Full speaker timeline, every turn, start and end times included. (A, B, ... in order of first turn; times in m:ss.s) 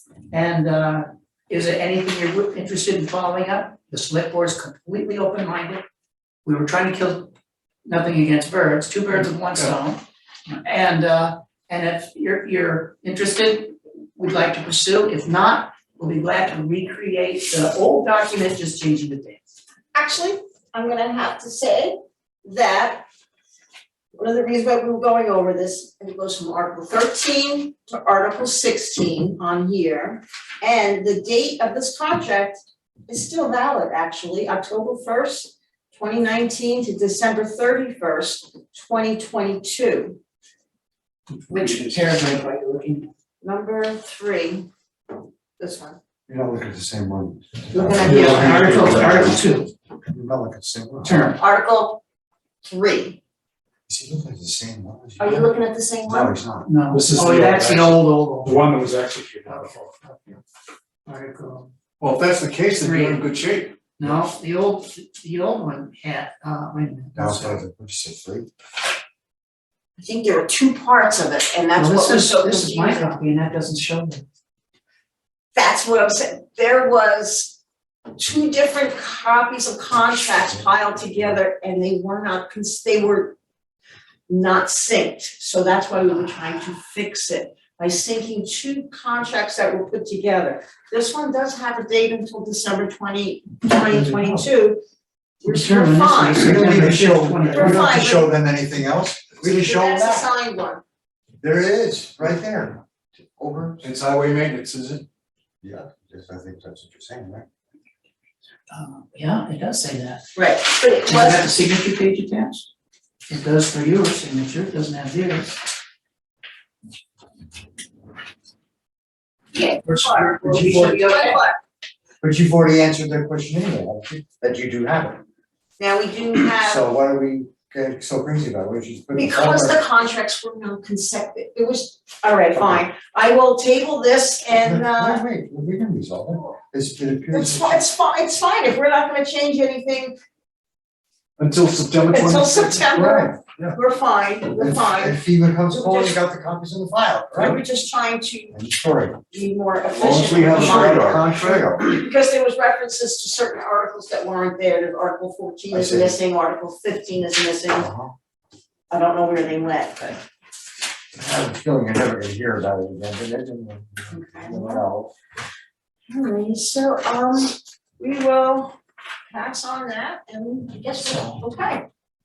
0:00.3-0:05.8 A
0:06.4-0:07.3 A
0:07.9-0:19.4 A
0:19.9-0:23.0 B
0:24.2-0:40.2 B
0:41.5-0:43.1 A
0:43.4-0:44.7 B
0:45.6-0:46.0 B
0:46.3-0:49.4 C
0:47.7-0:48.7 B
0:48.0-0:49.4 D
0:48.0-0:49.7 A
0:50.1-0:51.3 C
0:51.0-0:51.4 A
0:51.4-0:52.0 B
0:52.6-0:53.2 B
0:53.9-0:55.5 C
0:55.2-0:56.3 B
0:56.0-0:56.7 C
0:56.6-0:58.6 A
0:56.9-0:59.9 D
0:59.4-1:00.4 A
1:01.0-1:01.7 A
1:02.0-1:03.9 E
1:02.8-1:03.3 A
1:04.0-1:07.6 A
1:07.1-1:08.5 C
1:10.0-1:13.1 B
1:11.7-1:14.2 A
1:15.6-1:17.6 B
1:18.2-1:23.4 B
1:24.3-1:34.8 B
1:33.9-1:34.4 C
1:35.4-1:36.6 B
1:35.4-1:38.3 A
1:36.3-1:40.3 C
1:37.4-1:38.2 B
1:39.4-1:40.8 B
1:41.4-1:43.8 C
1:43.8-1:45.0 E
1:45.6-1:47.4 C
1:48.7-1:50.3 A
1:50.4-1:51.5 B
1:51.0-1:52.7 A
1:53.3-1:55.5 A
1:59.5-2:01.6 B
1:59.8-2:01.4 A
2:02.2-2:05.2 C
2:05.8-2:06.8 B
2:06.5-2:09.8 C
2:09.1-2:15.2 B
2:14.6-2:17.8 C
2:17.3-2:20.1 B
2:21.4-2:22.9 E
2:22.1-2:25.2 B
2:22.8-2:23.8 C
2:24.5-2:27.6 C
2:25.7-2:26.2 B
2:27.3-2:28.5 B
2:28.5-2:29.2 C
2:29.3-2:37.9 B
2:29.9-2:31.2 E
2:30.2-2:31.8 C
2:35.7-2:36.2 C
2:37.7-2:38.1 C
2:38.9-2:40.2 B
2:41.1-2:45.1 C
2:44.1-2:44.8 B
2:46.1-2:48.8 B
2:49.3-2:51.8 B